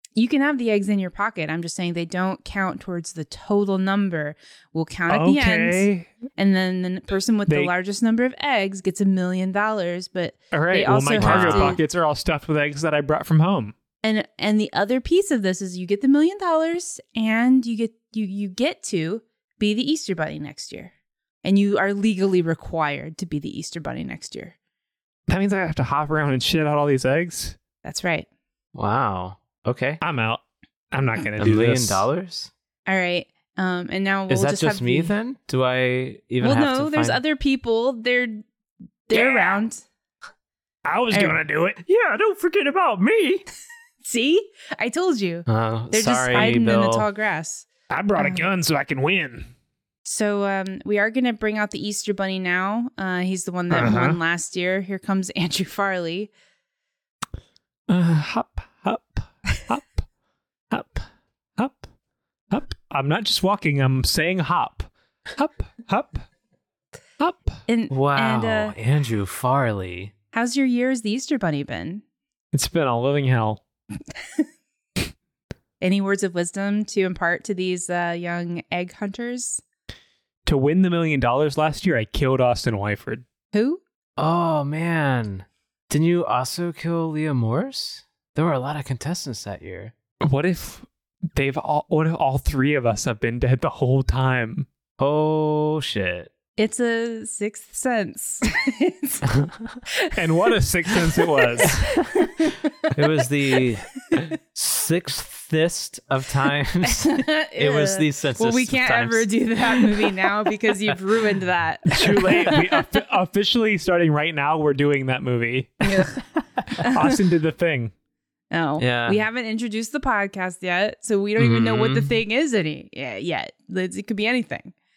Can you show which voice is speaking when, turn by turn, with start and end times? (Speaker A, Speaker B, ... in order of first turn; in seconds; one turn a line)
Speaker A: 0.1-11.8
Speaker B: 5.1-6.1
Speaker B: 10.5-13.7
Speaker C: 11.1-11.8
Speaker A: 14.0-20.9
Speaker A: 21.4-24.5
Speaker B: 25.3-27.6
Speaker A: 27.8-28.3
Speaker C: 28.7-30.0
Speaker B: 30.0-32.0
Speaker C: 31.4-32.5
Speaker A: 32.9-35.1
Speaker C: 34.3-37.2
Speaker A: 36.4-38.4
Speaker A: 39.1-39.8
Speaker B: 39.1-39.6
Speaker B: 40.8-43.4
Speaker A: 41.1-41.4
Speaker A: 44.0-48.5
Speaker C: 45.5-47.0
Speaker B: 47.9-49.5
Speaker A: 50.0-56.3
Speaker B: 53.7-54.2
Speaker B: 57.9-60.0
Speaker B: 60.7-61.0
Speaker B: 61.6-61.8
Speaker B: 62.5-66.2
Speaker B: 67.2-67.6
Speaker A: 67.7-68.7
Speaker C: 67.9-70.1
Speaker A: 70.3-72.0
Speaker B: 72.5-73.6
Speaker A: 75.8-79.6
Speaker B: 80.5-83.2
Speaker A: 83.5-83.8
Speaker C: 84.2-89.9
Speaker B: 90.2-94.7
Speaker C: 95.0-96.3
Speaker A: 96.6-99.3
Speaker C: 99.3-99.7
Speaker A: 99.9-102.9
Speaker B: 100.2-101.8
Speaker C: 101.7-102.0
Speaker C: 103.0-110.1
Speaker A: 106.8-112.8
Speaker B: 111.9-117.9
Speaker A: 115.8-116.2
Speaker A: 116.8-117.2
Speaker A: 118.5-124.7
Speaker C: 118.8-119.2
Speaker C: 121.4-122.1